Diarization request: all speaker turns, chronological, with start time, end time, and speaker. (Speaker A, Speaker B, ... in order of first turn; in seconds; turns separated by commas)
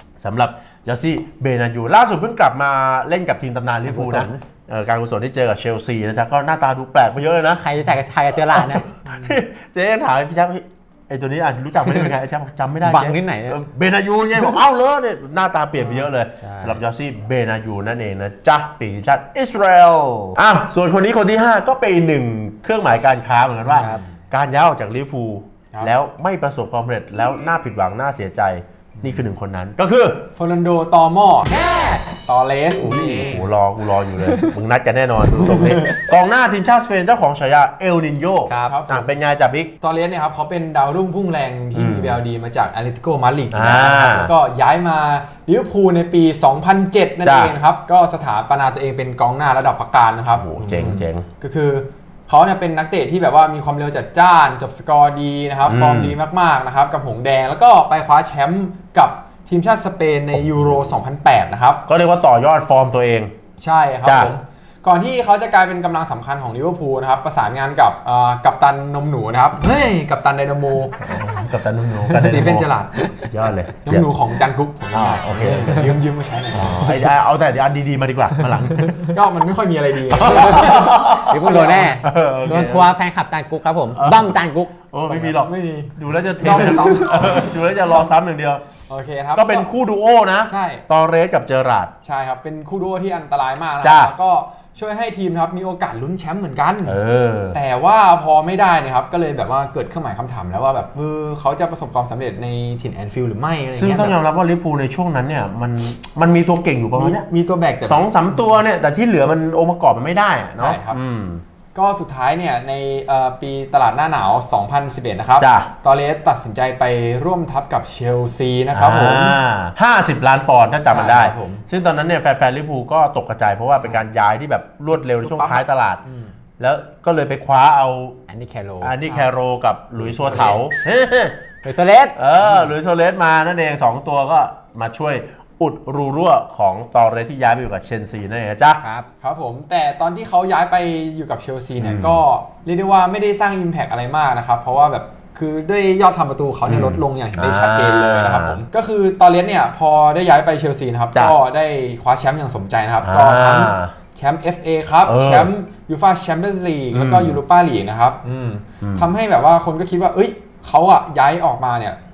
Speaker A: 0.2-7.6, Speaker B: 3.8-4.4, Speaker B: 7.6-8.9, Speaker A: 8.5-30.3, Speaker C: 9.1-9.3, Speaker B: 12.8-13.6, Speaker C: 15.8-16.1, Speaker B: 16.4-16.8, Speaker C: 23.6-24.2, Speaker B: 23.7-24.0, Speaker C: 29.0-29.3, Speaker C: 30.4-33.5, Speaker A: 32.8-39.7, Speaker C: 35.3-36.0, Speaker B: 38.5-38.8, Speaker C: 38.6-39.1, Speaker C: 39.8-61.8, Speaker A: 41.7-42.2, Speaker A: 43.5-44.3, Speaker A: 47.2-47.5, Speaker A: 50.3-51.2, Speaker A: 55.6-56.2, Speaker A: 61.9-63.3, Speaker C: 63.6-71.0, Speaker A: 64.0-64.3, Speaker A: 71.0-74.1, Speaker C: 72.1-73.0, Speaker C: 73.8-77.1, Speaker A: 74.9-76.0, Speaker A: 76.5-79.2, Speaker C: 78.5-82.1, Speaker A: 80.1-82.9, Speaker B: 81.2-84.7, Speaker A: 83.9-88.7, Speaker C: 85.1-88.0, Speaker C: 88.9-89.7, Speaker A: 89.3-91.9, Speaker C: 90.5-90.8, Speaker C: 92.0-97.0, Speaker A: 93.8-94.1, Speaker A: 96.8-97.6, Speaker C: 97.5-104.2, Speaker A: 103.8-107.2, Speaker C: 107.0-108.6, Speaker A: 107.8-111.4, Speaker C: 110.6-111.0, Speaker C: 111.7-119.4, Speaker A: 115.4-115.7, Speaker A: 118.7-126.0, Speaker C: 120.9-121.6, Speaker C: 125.1-126.3, Speaker A: 126.6-128.2, Speaker B: 128.3-128.9, Speaker A: 128.8-131.4, Speaker C: 129.0-129.3, Speaker C: 130.0-130.7, Speaker B: 131.6-132.2, Speaker A: 132.2-138.8, Speaker C: 132.4-132.7, Speaker B: 138.8-139.1, Speaker C: 139.2-162.0, Speaker A: 141.8-142.2, Speaker A: 146.7-148.6, Speaker A: 153.0-153.9, Speaker A: 155.0-155.5, Speaker A: 156.9-157.4, Speaker A: 158.8-159.1